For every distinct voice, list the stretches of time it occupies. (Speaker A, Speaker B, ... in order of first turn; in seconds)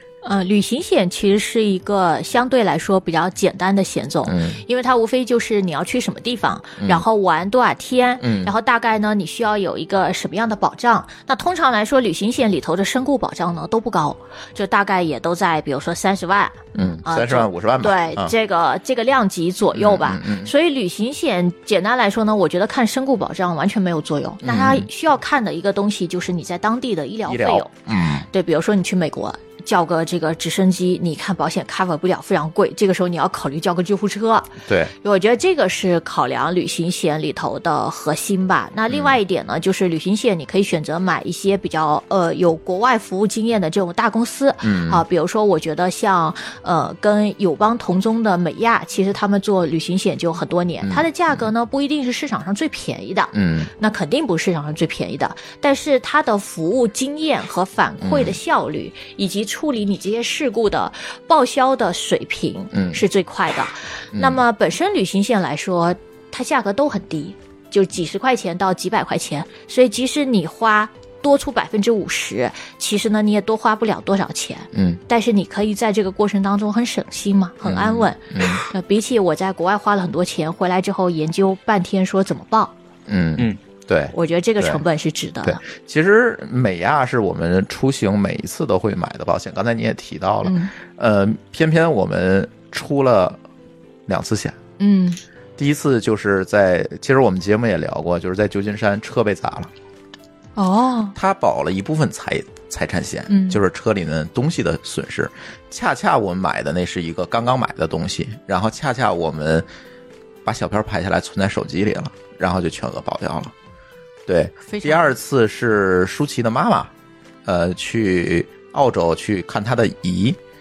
Speaker A: 0.2-27.7, 28.3-82.7, 84.1-85.6, 90.5-90.7, 94.8-95.2, 100.6-101.2, 103.3-103.6, 114.7-115.2
Speaker B: 4.3-4.6, 6.8-7.0, 8.2-8.5, 16.8-18.3, 19.7-20.5, 24.4-24.9, 27.3-28.3, 34.6-34.9, 38.9-39.2, 44.6-45.0, 50.8-51.5, 53.3-53.7, 58.0-58.4, 62.7-63.0, 64.1-64.4, 74.7-75.0, 77.6-78.7, 83.1-84.8, 85.4-93.4, 94.1-94.6, 95.6-99.7, 101.2-109.7, 110.5-113.5, 114.3-116.9, 117.5-120.4